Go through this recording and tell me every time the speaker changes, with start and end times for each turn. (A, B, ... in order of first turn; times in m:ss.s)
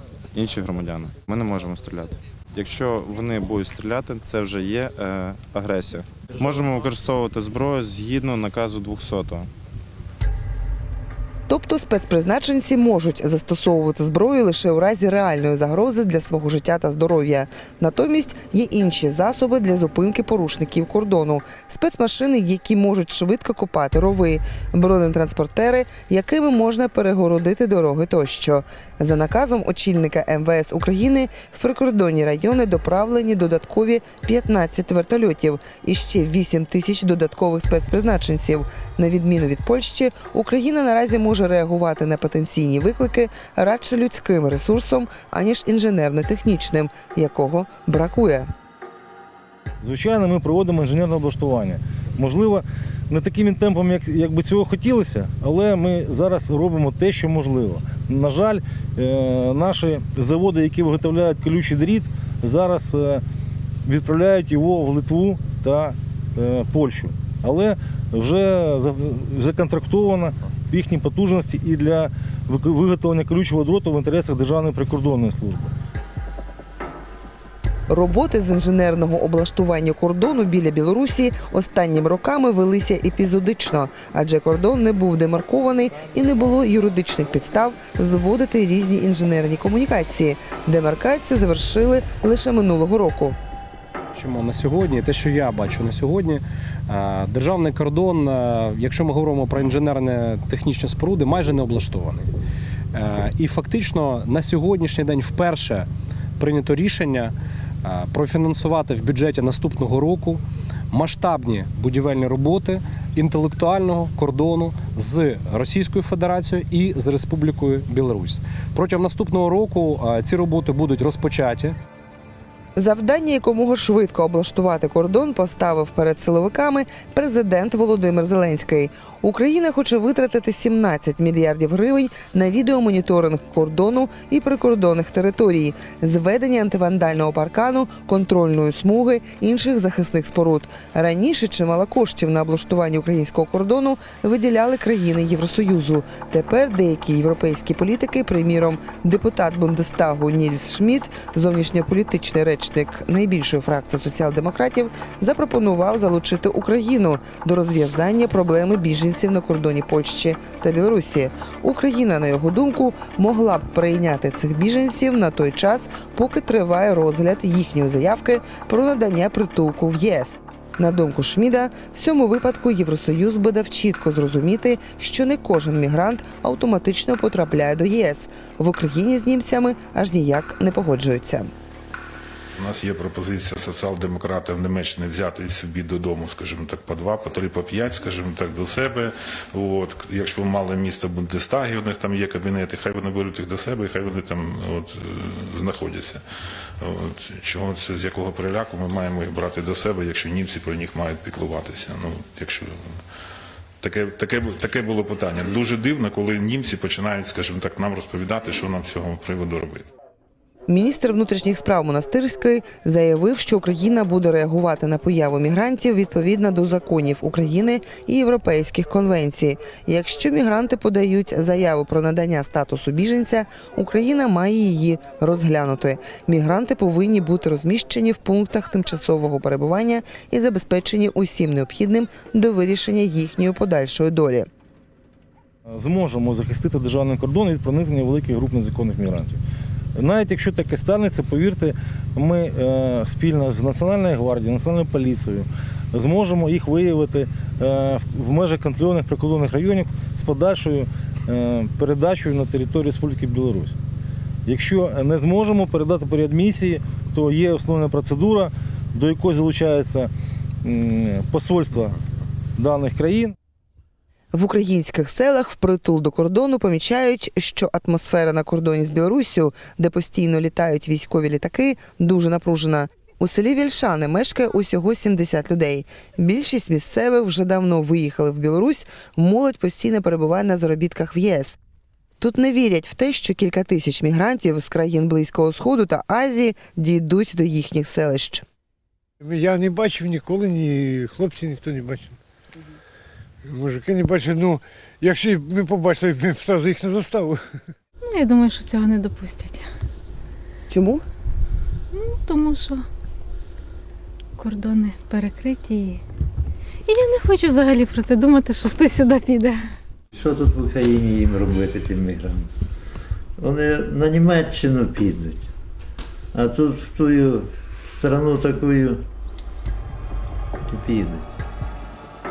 0:00.3-0:09.5 A
0:11.5-0:48.5 B
0:49.8-1:03.2 C
1:03.8-1:15.7 C
1:17.9-1:33.4 B
1:34.1-1:42.3 D
1:42.9-2:01.8 D
2:02.8-3:01.5 B
3:02.6-3:16.2 E
3:16.8-3:23.0 E
3:23.8-3:29.8 E
3:30.7-3:54.5 B
3:55.7-3:59.4 C
4:00.0-4:13.7 C
4:14.4-4:20.1 C
4:20.6-4:22.0 C
4:22.6-4:23.3 C
4:24.3-4:41.6 B
4:42.2-4:48.4 B
4:49.2-4:52.2 F
4:53.4-4:57.6 F
4:58.0-4:59.7 G
5:00.7-5:01.0 B
5:01.9-5:02.8 G
5:04.4-5:06.0 G
5:06.8-5:09.6 G
5:10.1-5:12.5 H
5:13.4-5:15.5 H
5:16.3-5:19.0 H
5:20.7-5:21.3 H